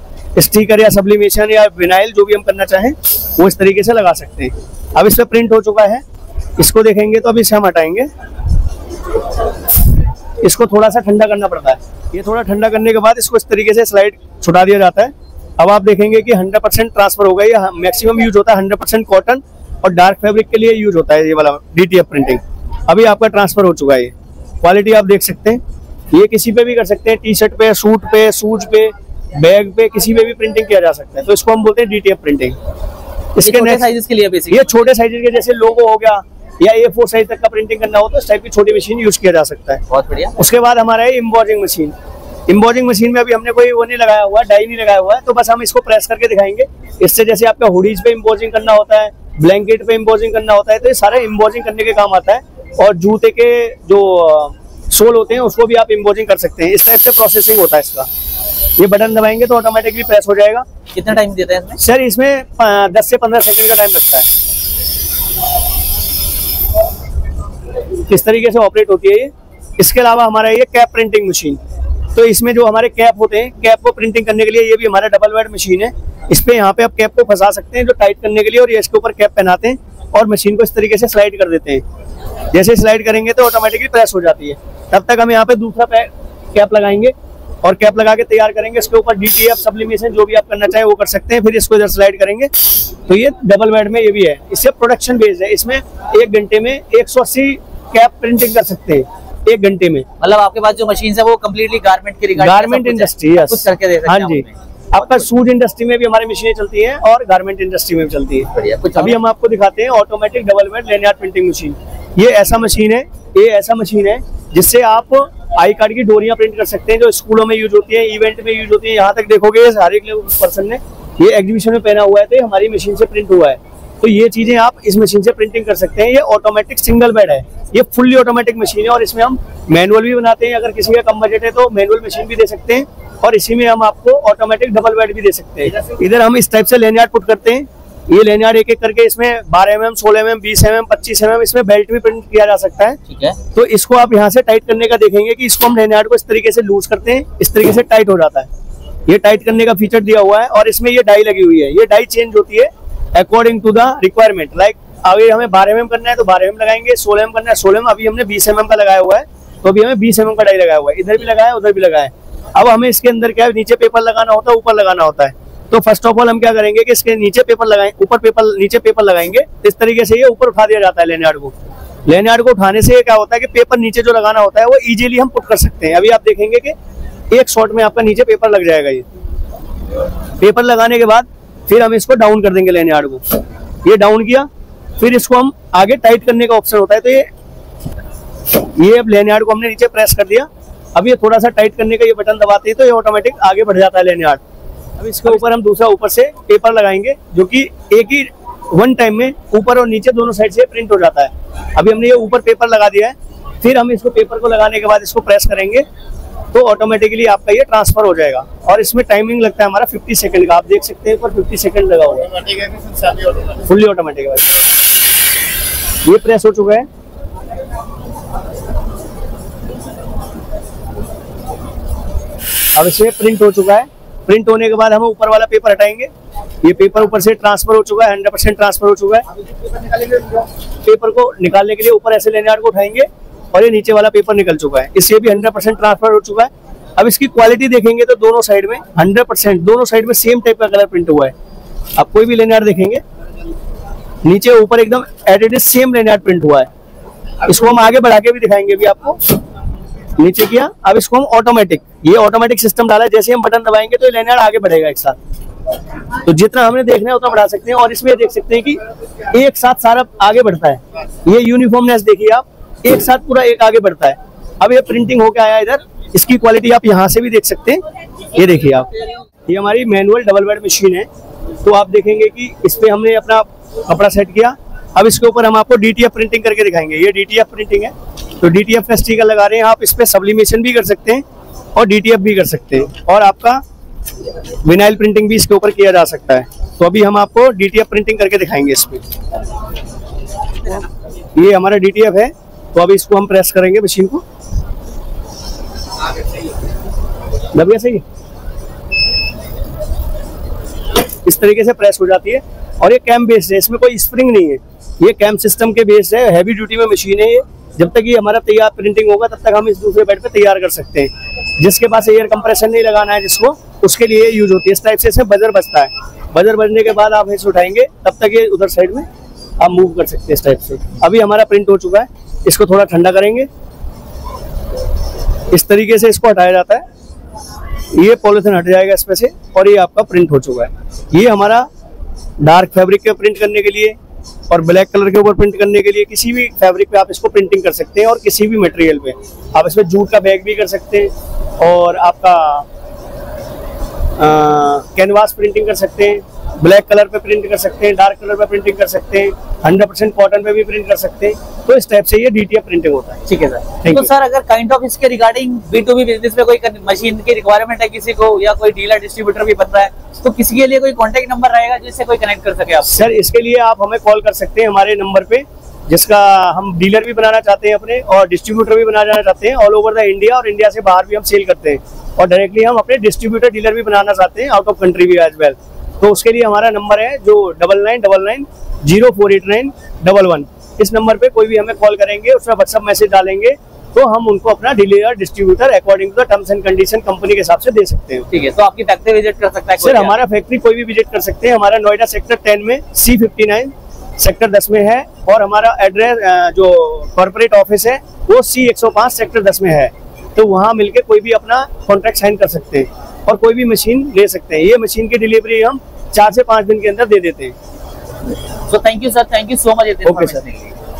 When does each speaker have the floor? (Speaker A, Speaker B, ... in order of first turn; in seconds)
Speaker A: 0.4-6.0, 6.6-8.1, 10.4-25.6, 26.1-32.6, 33.4-33.8, 34.5-39.8, 40.4-41.9, 42.5-58.1, 58.8-60.6, 61.8-64.3, 68.1-71.6, 72.2-81.8, 82.5-87.1, 87.6-92.5, 93.1-100.1, 102.4-143.0, 143.5-148.5, 149.1-171.5, 172.1-176.8, 177.3-179.1, 180.4-184.5, 185.0-187.3, 188.6-194.4, 195.0-205.8, 206.5-212.7, 213.6-214.5, 216.1-216.9, 222.8-226.1, 226.6-229.3, 230.8-241.3, 242.0-243.0, 244.2-246.7, 247.4-249.2, 250.2-255.2, 256.2-258.8, 259.3-267.8, 268.3-268.9, 269.5-271.1, 271.6-281.2, 281.8-283.6, 284.6-289.0, 290.7-294.2, 297.5-298.0, 301.2-319.1, 319.6-323.5, 325.5-326.8, 327.9-331.7, 332.4-334.0, 334.5-342.7, 344.2-353.2, 353.8-354.1, 362.9-388.3, 389.8-407.6, 410.1-410.4
Speaker B: 33.4-34.9, 39.9-40.4, 60.9-61.8, 100.2-105.1, 108.5-109.2, 143.1-143.4, 353.3-363.1, 388.3-390.2, 408.7-410.7